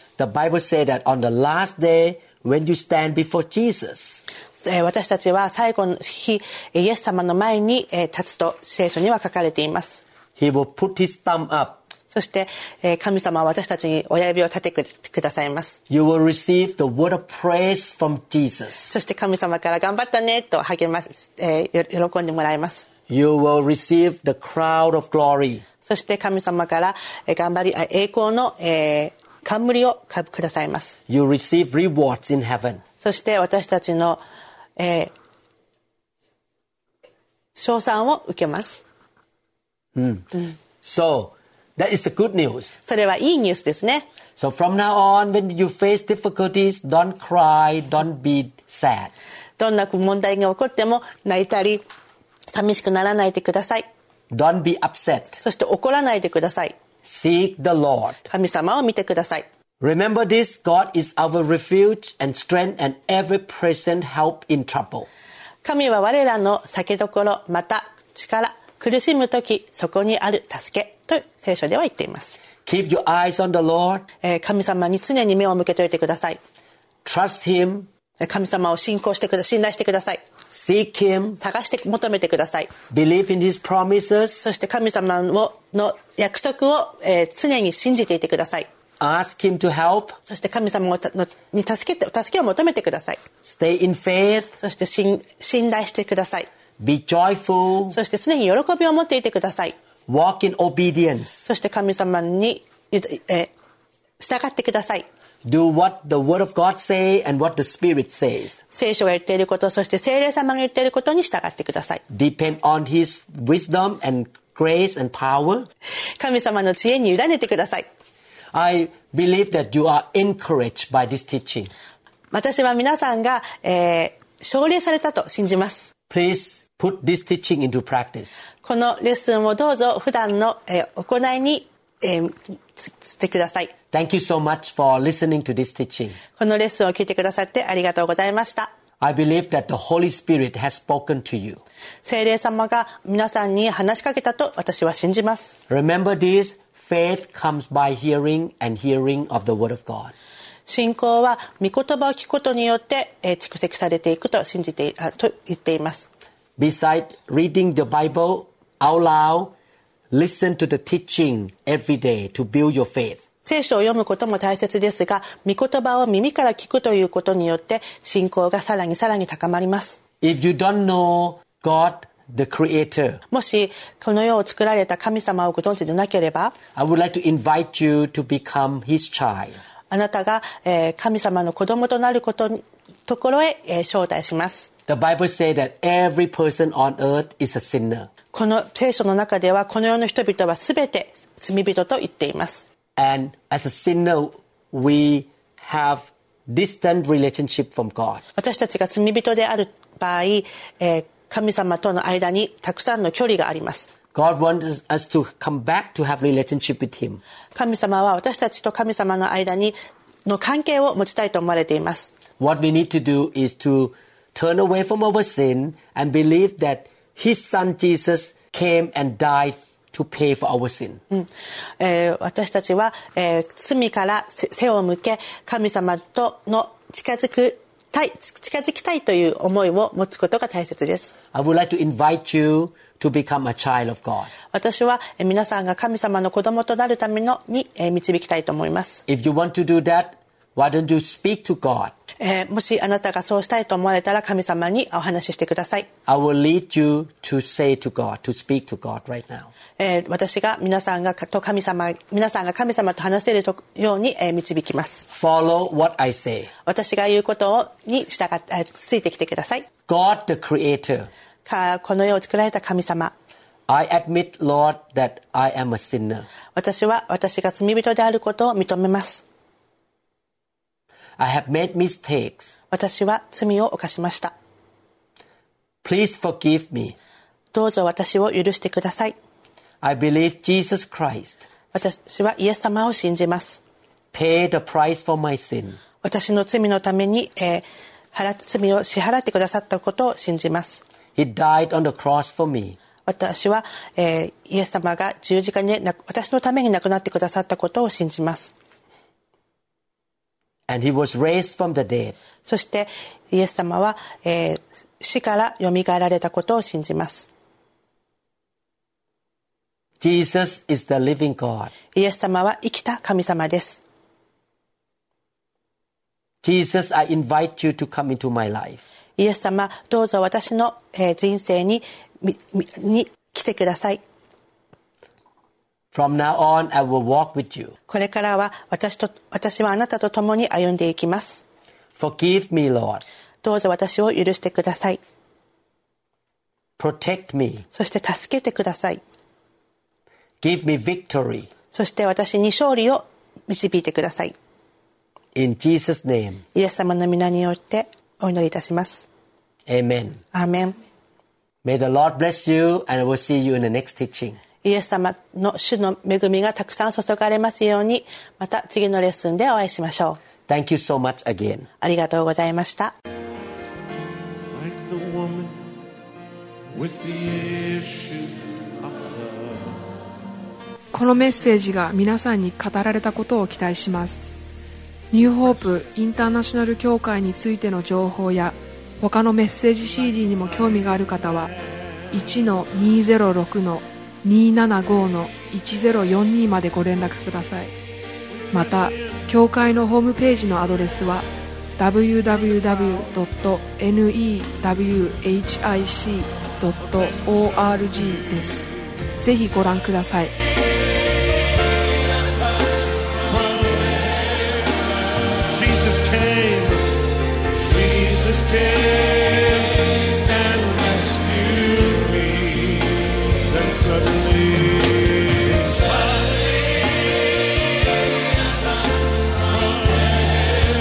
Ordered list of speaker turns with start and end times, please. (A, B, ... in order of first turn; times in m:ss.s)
0:00.2-0:04.2 A
0:04.6-0:10.0 B
0:10.4-0:11.8 A
0:12.1-0:15.8 B
0:15.9-0:18.9 A
0:18.9-0:22.9 B
0:23.1-0:25.6 A
0:25.8-0:30.9 B
0:31.1-0:32.8 A
0:33.0-0:34.2 B
0:34.8-0:35.1 B
0:37.6-0:38.8 B
0:39.9-0:42.8 A
0:42.8-0:44.0 B
0:44.4-0:49.1 A
0:49.6-0:51.8 B
0:52.5-0:53.8 B
0:54.3-0:55.4 A
0:55.4-0:56.7 B
0:57.0-0:58.2 A
0:58.2-0:59.4 B
0:59.8-1:05.1 A
1:05.6-1:12.4 B
1:12.6-1:14.0 A
1:14.2-1:16.4 B
1:17.0-1:17.9 A
1:18.2-1:20.2 B
1:20.5-1:21.4 A
1:21.4-1:22.7 B
1:22.9-1:24.5 A
1:24.4-1:28.6 B
1:29.0-1:30.2 A
1:30.3-1:33.2 B
1:33.4-1:34.6 A
1:34.6-1:36.5 B
1:36.8-1:38.0 A
1:37.9-1:39.7 B
1:40.1-1:41.4 A
1:41.4-1:43.5 B
1:44.2-1:45.0 B
1:45.4-1:48.6 A
1:48.7-1:52.0 B
1:52.1-1:55.7 A
1:56.2-1:57.9 B
1:58.5-2:01.7 A
2:02.3-2:05.9 B
2:06.1-2:08.4 A
2:08.6-2:13.7 B
2:13.9-2:16.2 A
2:16.4-2:18.7 B
2:19.0-2:21.6 A
2:22.0-2:25.6 B
2:25.7-2:30.1 A
2:30.7-2:36.1 B
2:36.6-2:39.5 A
2:40.1-2:43.2 A
2:43.4-2:50.0 B
2:50.2-2:53.2 A
2:53.3-2:56.5 B
2:56.7-2:59.6 A
2:59.9-3:04.7 B
3:04.9-3:08.1 A
3:08.3-3:12.6 B
3:13.0-3:18.2 A
3:18.4-3:23.9 B
3:24.1-3:27.2 A
3:27.5-3:29.7 B
3:30.2-3:32.1 B
3:32.4-3:41.0 A
3:41.8-3:51.1 B
3:51.3-3:54.3 A
3:54.5-3:59.0 B
3:59.1-4:01.9 A
4:02.2-4:05.9 B
4:06.0-4:09.5 A
4:09.8-4:15.0 B
4:15.1-4:16.5 A
4:16.6-4:19.7 B
4:19.9-4:21.1 A
4:21.4-4:23.1 B
4:23.7-4:26.3 A
4:26.6-4:29.2 B
4:31.2-4:32.5 A
4:32.7-4:34.3 B
4:35.8-4:37.0 A
4:37.5-4:39.1 B
4:39.8-4:41.4 A
4:41.7-4:43.6 B
4:44.1-4:45.8 A
4:46.0-4:50.8 B
4:51.2-4:52.8 A
4:53.0-4:58.5 B
5:00.7-5:02.1 A
5:02.4-5:07.3 B
5:10.0-5:11.7 A
5:11.9-5:13.8 B
5:16.4-5:18.8 A
5:19.2-5:24.0 B
5:25.9-5:27.7 A
5:27.9-5:31.4 B
5:32.0-5:33.0 A
5:33.4-5:35.0 B
5:36.8-5:37.6 A
5:37.7-5:39.0 B
5:40.4-5:41.5 A
5:41.7-5:44.3 B
5:45.3-5:46.4 A
5:46.5-5:49.1 B
5:49.7-5:50.2 A
5:50.3-5:50.8 B
5:51.6-5:54.4 A
5:54.6-6:00.2 B
6:00.5-6:01.7 A
6:01.8-6:02.9 B
6:04.5-6:05.6 C
6:06.7-6:09.8 C
6:10.9-6:14.3 D
6:15.1-6:21.5 D
6:22.1-6:27.7 D
6:28.5-6:31.3 D
6:31.8-6:38.6 D
6:39.2-6:40.3 D
6:43.2-6:44.3 C
6:45.4-6:46.9 C
6:47.5-6:56.6 C
6:59.3-7:00.4 C